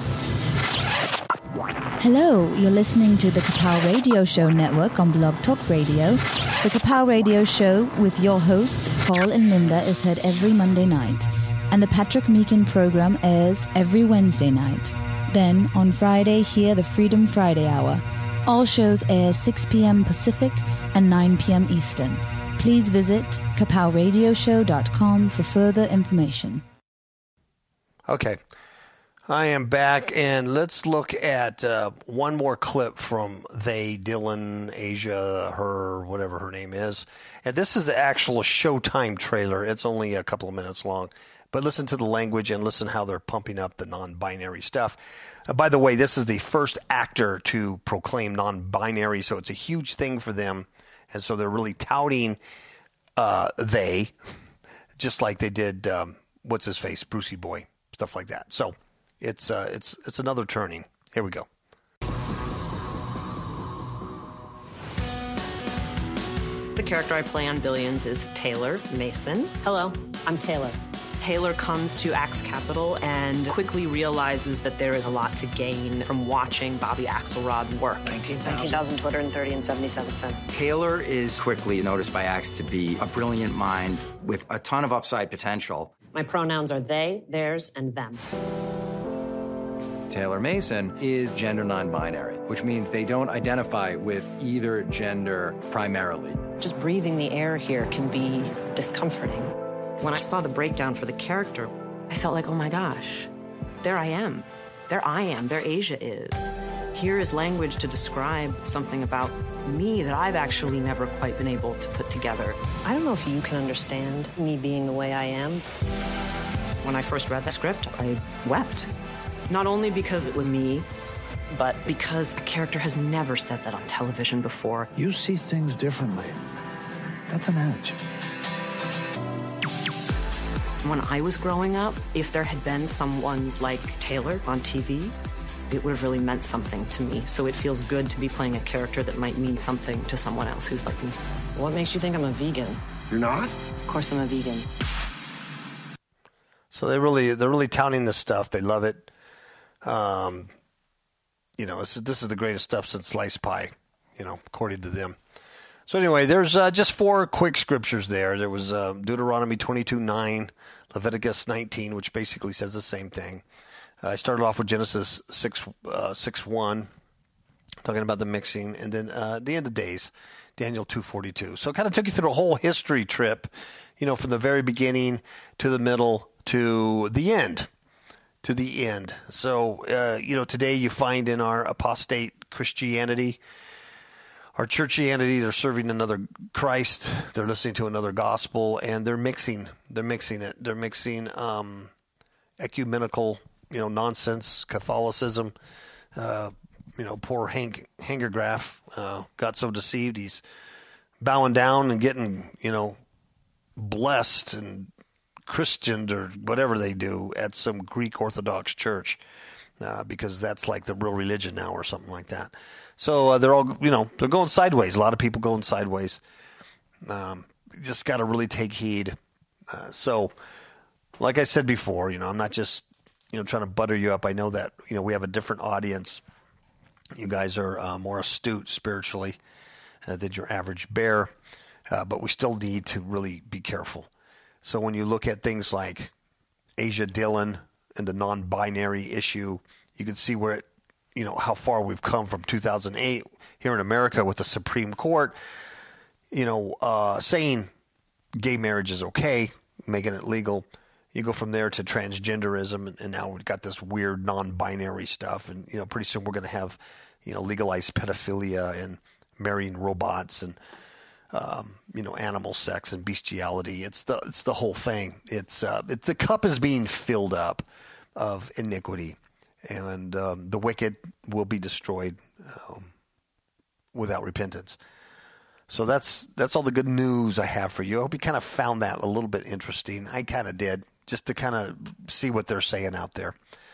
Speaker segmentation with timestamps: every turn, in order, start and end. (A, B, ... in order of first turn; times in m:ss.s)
0:02.0-0:26.6 A
0:28.1-0:28.4 B
0:29.3-0:52.4 B
0:53.2-0:54.2 B
0:55.0-1:01.5 B
1:06.8-1:20.4 C
1:18.0-1:18.8 D
1:20.5-1:25.9 E
1:26.1-1:28.2 C
1:30.1-1:36.4 F
1:36.6-1:43.3 C
1:43.8-1:55.6 C
1:56.8-1:58.9 C
1:59.5-2:00.9 C
2:01.5-2:04.9 C
2:05.0-2:06.4 D
2:07.3-2:08.0 D
2:10.8-2:15.2 C
2:15.7-2:22.8 C
2:23.1-2:23.6 D
2:23.8-2:24.7 C
2:26.7-2:29.1 B
2:29.8-2:30.5 B
2:31.6-2:35.2 B
2:35.9-2:43.4 B
2:44.0-2:46.9 B
2:47.8-2:57.7 B
2:58.4-3:03.4 B
3:04.6-3:11.9 B
3:12.6-3:15.5 B
3:16.2-3:20.4 B
3:21.2-3:23.0 B
3:23.8-3:24.9 B
3:25.5-3:29.2 B
3:29.8-3:36.2 B
3:37.0-3:39.2 B
3:39.7-3:40.3 B
3:41.2-3:46.2 B
3:47.1-3:49.4 B
3:50.0-3:51.3 B
3:51.9-3:54.1 B
3:54.6-3:56.1 B
3:56.8-4:05.4 B
4:06.3-4:07.7 B
4:08.4-4:20.6 B
4:21.3-4:32.9 B
4:33.9-4:34.8 B
4:35.7-4:43.4 B